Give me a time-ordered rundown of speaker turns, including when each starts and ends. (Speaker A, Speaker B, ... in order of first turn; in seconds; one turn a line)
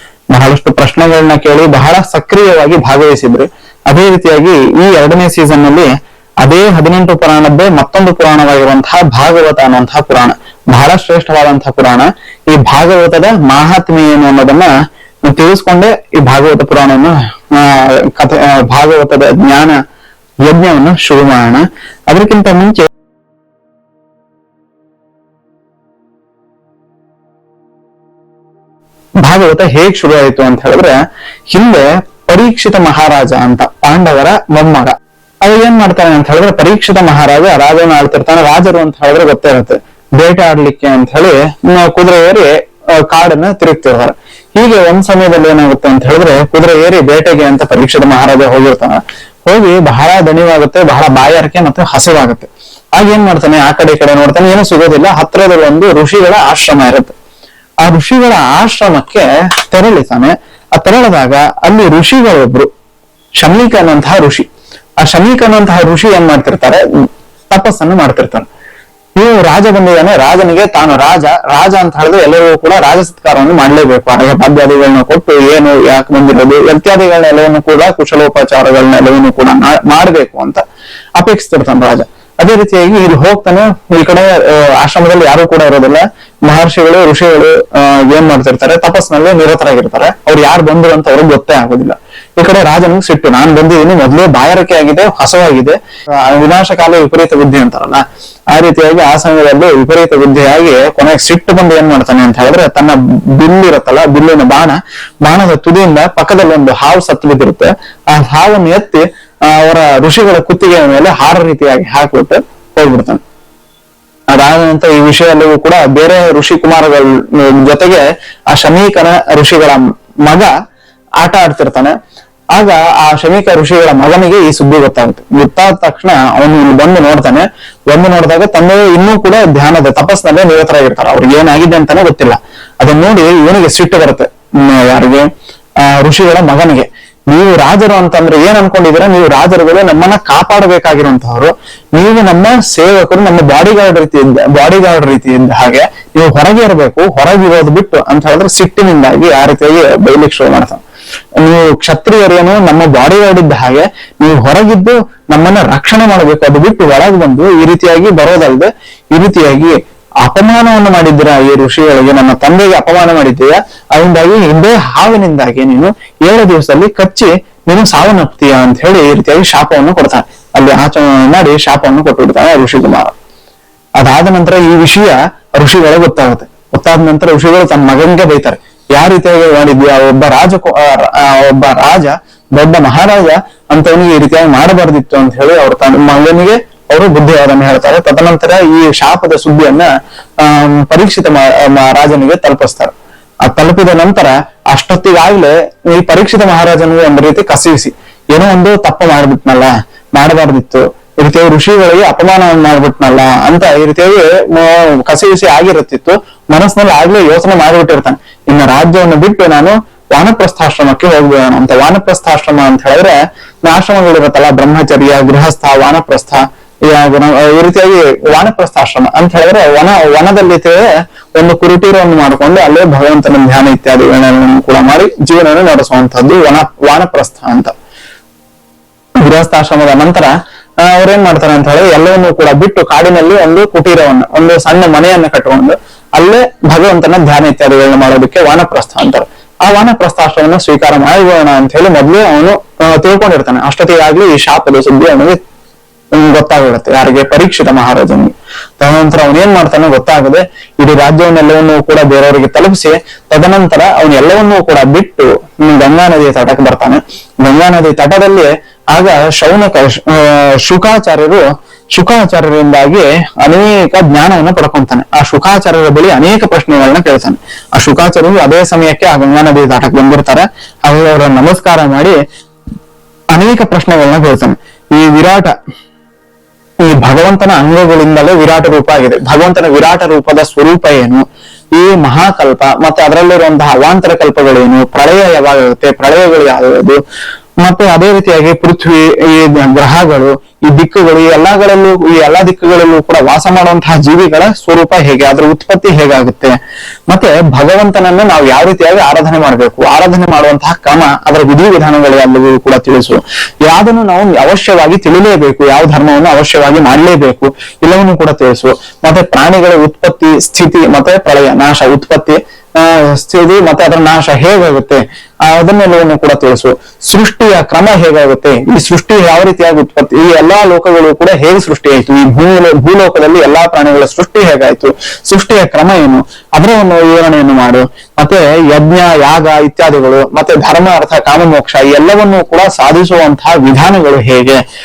Speaker A: 0.3-5.9
Speaker A: 6.4-14.7
Speaker A: 15.3-19.8
Speaker A: 20.5-22.9
Speaker A: 29.2-31.0
Speaker A: 31.5-57.2
Speaker A: 57.8-62.7
Speaker A: 63.4-64.5
Speaker A: 65.0-66.8
Speaker A: 67.5-68.5
Speaker A: 69.2-80.6
Speaker A: 81.2-113.2
Speaker A: 114.3-120.5
Speaker A: 121.2-121.9
Speaker A: 122.5-135.3
Speaker A: 135.8-150.8
Speaker A: 151.4-173.1
Speaker A: 174.0-192.9
Speaker A: 193.5-227.7
Speaker A: 229.2-245.4
Speaker A: 246.1-272.2
Speaker A: 273.3-275.5
Speaker A: 276.9-281.2
Speaker A: 281.8-287.0
Speaker A: 287.6-296.6
Speaker A: 297.1-334.6